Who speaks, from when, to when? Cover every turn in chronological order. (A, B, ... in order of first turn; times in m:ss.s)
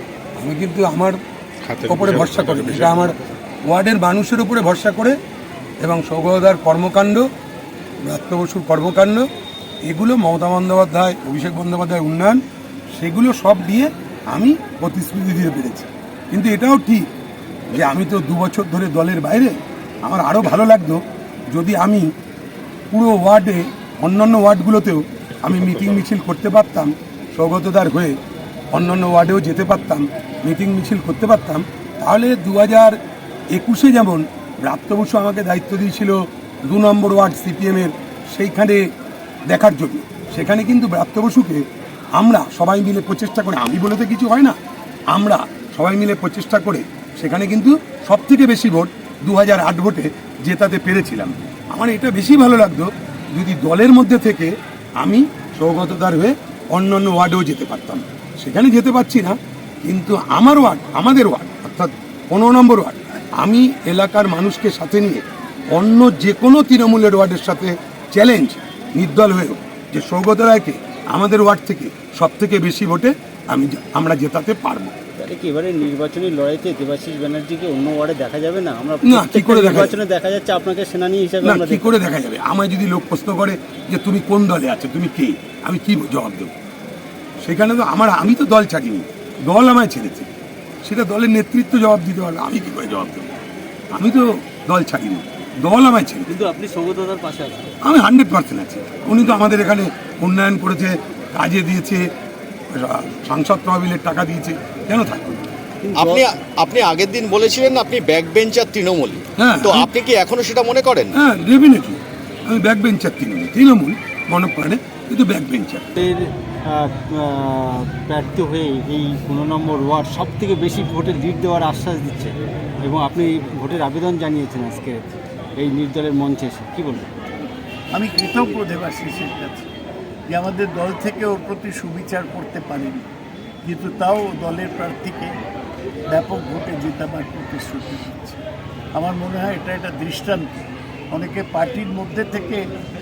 0:00.4-0:01.2 A
0:01.8-0:03.2 A
0:03.7-0:05.2 A
0:05.8-0:07.3 A
0:08.0-0:09.3 A
0:09.8-0:17.1 A
0:17.7-0:22.1 A
0:22.9-0:28.2 A
0:28.7-0:33.0 A
0:33.5-0:38.9 A
0:39.5-0:44.6 A
0:45.1-1:15.0 A
1:15.2-1:22.0 B
1:19.0-1:20.0 A
1:21.4-1:26.5 A
1:27.4-1:30.3 A
1:30.8-1:33.4 A
1:33.9-1:36.4 A
1:36.3-1:37.7 B
1:37.8-1:42.1 A
1:42.7-1:45.4 A
1:45.8-1:46.3 B
1:46.0-1:51.2 C
1:49.4-1:49.9 A
1:51.1-1:55.9 A
1:56.0-2:07.1 B
2:07.9-2:09.7 D
2:10.3-2:13.1 D
2:13.6-2:15.4 D
2:16.1-2:18.4 D
2:19.0-2:20.5 D
2:21.1-2:22.7 D